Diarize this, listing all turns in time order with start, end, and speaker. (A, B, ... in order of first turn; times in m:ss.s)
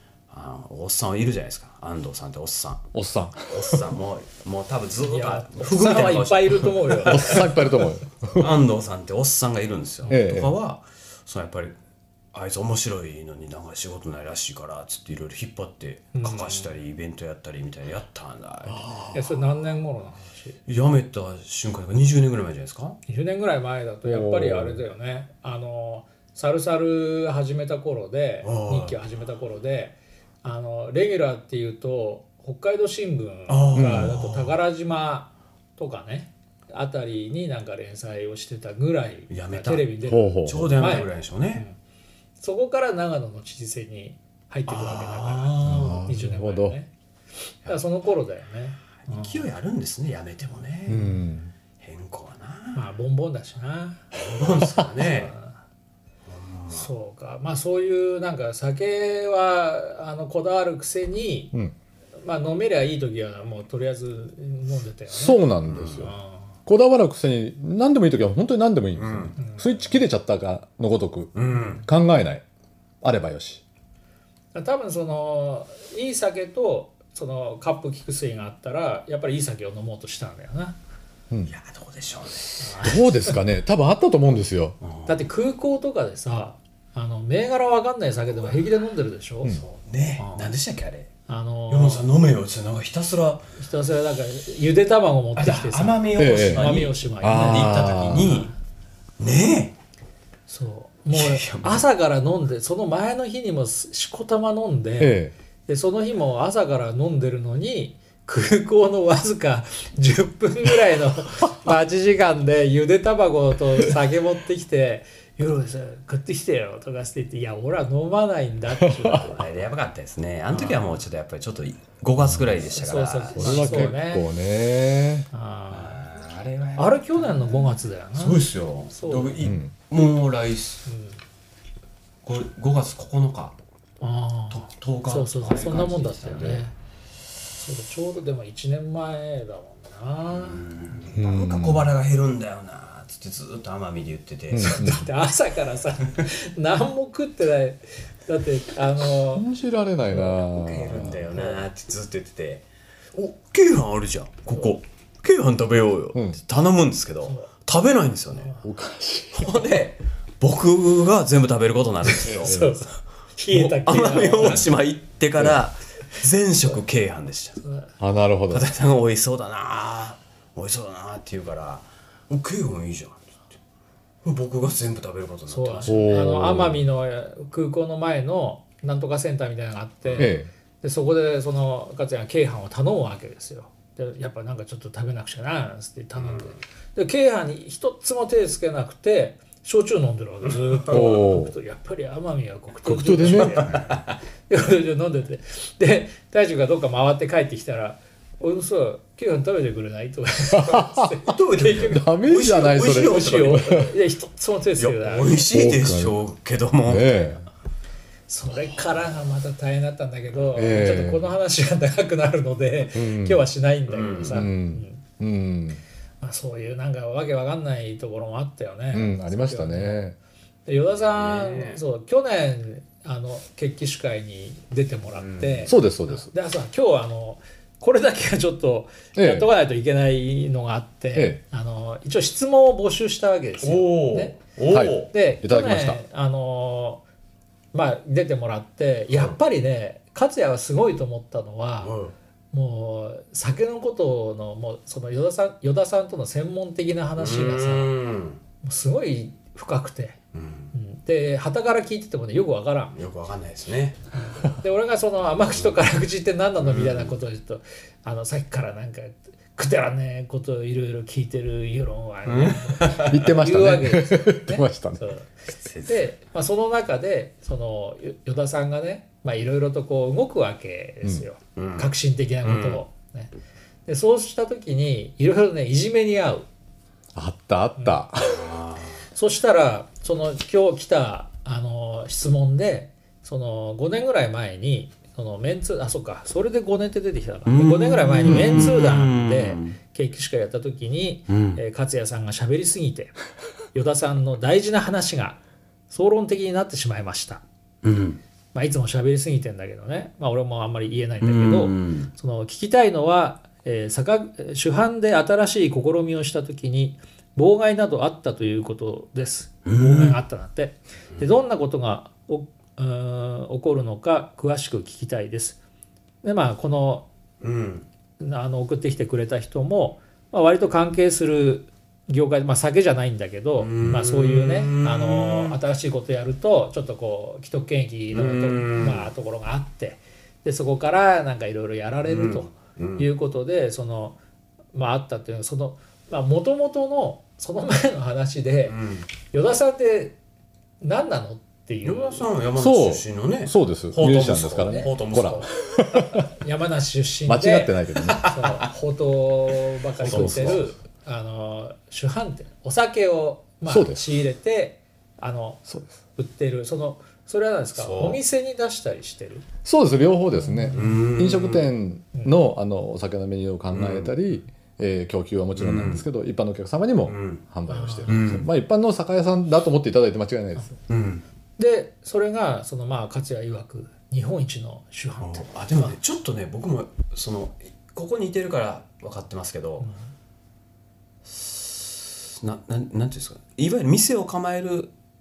0:00.3-0:02.9 A
0:02.9-0:03.9 B
0:03.5-0:07.7 A
0:05.0-0:07.6 C
0:07.0-0:08.6 B
0:08.3-0:11.8 A
0:10.0-0:10.3 C
0:10.1-0:10.6 B
0:12.3-0:19.2 A
0:16.2-0:16.7 C
0:18.7-0:19.2 B
0:19.1-0:20.6 C
0:20.7-0:23.0 A
0:23.1-0:41.8 C
0:24.0-0:24.8 B
0:28.4-0:29.0 A
0:33.5-0:34.6 A
0:33.8-0:34.1 B
0:39.3-0:41.6 A
0:40.1-0:40.8 B
0:42.4-0:46.9 C
0:44.7-0:46.1 A
0:45.6-0:46.8 B
0:47.7-0:49.5 C
0:49.0-0:51.1 A
0:50.9-0:51.5 B
0:50.9-0:51.2 C
0:51.8-0:52.9 A
0:52.8-0:54.0 C
0:54.1-0:55.4 A
0:54.9-0:55.6 C
0:56.3-0:56.9 A
0:56.7-1:01.5 C
1:02.2-1:05.4 C
1:05.1-1:06.1 B
1:05.7-1:06.1 A
1:06.0-1:06.4 C
1:06.7-1:12.4 B
1:09.0-1:09.4 A
1:09.4-1:10.0 C
1:11.3-1:11.8 A
1:13.0-1:13.6 B
1:14.5-1:20.8 C
1:21.5-1:22.8 A
1:22.6-1:23.4 C
1:22.8-1:24.8 B
1:24.8-1:25.3 A
1:25.1-1:29.5 C
1:29.5-1:31.1 A
1:30.2-1:30.5 C
1:31.3-1:32.1 C
1:31.7-1:33.5 A
1:33.6-1:38.5 C
1:35.4-1:38.5 A
1:36.2-1:38.3 B
1:39.2-1:39.8 A
1:40.5-1:59.5 C
1:41.1-1:41.9 A
1:45.0-1:45.3 B
1:58.9-1:59.2 B
1:59.2-2:03.9 A
2:02.7-2:04.3 C
2:03.3-2:05.3 B
2:05.3-2:06.0 C
2:05.7-2:10.9 A
2:06.8-2:08.4 C
2:09.0-2:09.4 C
2:09.4-2:09.7 B
2:10.9-2:11.2 C
2:12.2-2:13.6 A
2:14.0-2:16.7 C
2:14.5-2:16.7 A
2:17.6-2:20.6 C
2:20.3-2:24.9 A
2:21.1-2:21.9 B
2:24.5-2:25.0 B
2:24.6-2:29.5 C
2:29.2-2:31.4 B
2:30.1-2:30.4 C
2:30.2-2:32.6 A
2:31.3-2:31.6 C
2:33.2-2:38.5 A
2:37.2-2:37.5 C
2:38.6-2:39.5 B
2:39.3-2:42.7 A
2:42.2-2:44.7 C
2:42.3-2:42.8 B
2:43.5-2:47.6 A
2:48.0-2:48.7 B
2:48.5-2:53.5 A
2:54.2-2:56.1 A
2:55.5-3:13.9 C
2:55.9-2:56.8 B
3:00.0-3:00.3 A
3:00.2-3:00.5 B
3:06.2-3:06.6 A
3:10.9-3:11.6 B
3:12.8-3:13.8 B
3:13.4-3:14.1 A
3:14.5-3:22.0 C
3:20.5-3:23.9 B
3:21.2-3:23.8 A
3:22.9-3:25.4 C
3:24.8-3:27.3 A
3:25.5-3:26.2 B
3:26.9-3:27.5 B
3:28.3-3:35.0 C
3:30.6-3:31.3 B
3:32.9-3:33.5 B
3:33.9-3:34.5 A
3:34.3-3:35.8 B
3:36.2-3:40.0 C
3:38.9-3:40.2 B
3:40.7-3:57.0 C
3:41.0-3:41.8 A
3:45.2-3:45.7 A
3:45.7-3:46.3 B
3:49.2-3:49.5 B
3:51.1-3:51.4 B
3:53.6-3:55.1 A
3:54.7-3:56.0 B
3:57.7-4:02.0 C
3:59.1-3:59.4 A
4:01.8-4:02.1 A
4:02.5-4:07.9 C
4:07.2-4:08.4 A
4:08.6-4:10.2 C
4:10.3-4:10.7 A
4:10.7-4:13.0 C
4:12.9-4:14.0 A
4:14.2-4:33.3 C
4:15.5-4:15.8 A
4:16.6-4:17.2 A
4:22.3-4:23.3 A
4:22.9-4:25.1 B
4:25.6-4:26.1 A
4:31.6-4:32.8 A
4:33.9-4:36.5 C
4:37.2-4:38.4 B
4:37.8-4:38.0 C
4:38.3-4:38.9 A
4:39.1-4:53.1 C
4:47.5-4:49.8 A
4:48.3-4:48.7 B
4:51.3-4:51.6 A
4:53.7-4:55.4 C
4:55.9-4:57.4 C
4:57.8-4:58.2 A
4:58.5-5:15.6 C
5:01.2-5:02.1 A
5:09.7-5:10.2 A
5:16.2-5:17.1 C
5:17.4-5:17.9 A
5:18.2-5:34.2 C
5:23.6-5:25.6 A
5:28.1-5:29.1 A
5:32.0-5:33.1 A
5:34.7-5:40.2 C
5:38.7-5:39.1 A
5:40.8-5:42.3 C
5:41.8-5:45.5 A
5:42.6-5:46.3 B
5:44.7-5:44.9 C
5:46.1-5:55.6 C
5:47.3-5:48.2 B
5:48.2-5:48.7 A
5:50.0-5:50.7 A
5:50.0-5:50.7 B
5:53.7-5:54.0 B
5:55.7-5:55.9 B
5:56.2-5:59.4 C
5:57.8-5:58.2 A
5:59.6-6:10.7 B
6:00.4-6:01.1 C
6:00.7-6:01.7 A
6:03.7-6:04.1 A
6:05.6-6:06.1 A
6:07.1-6:07.4 A
6:07.7-6:08.3 C
6:08.1-6:08.5 A
6:10.9-6:11.2 A
6:11.6-6:15.9 C
6:15.2-6:19.9 A
6:21.3-6:24.9 A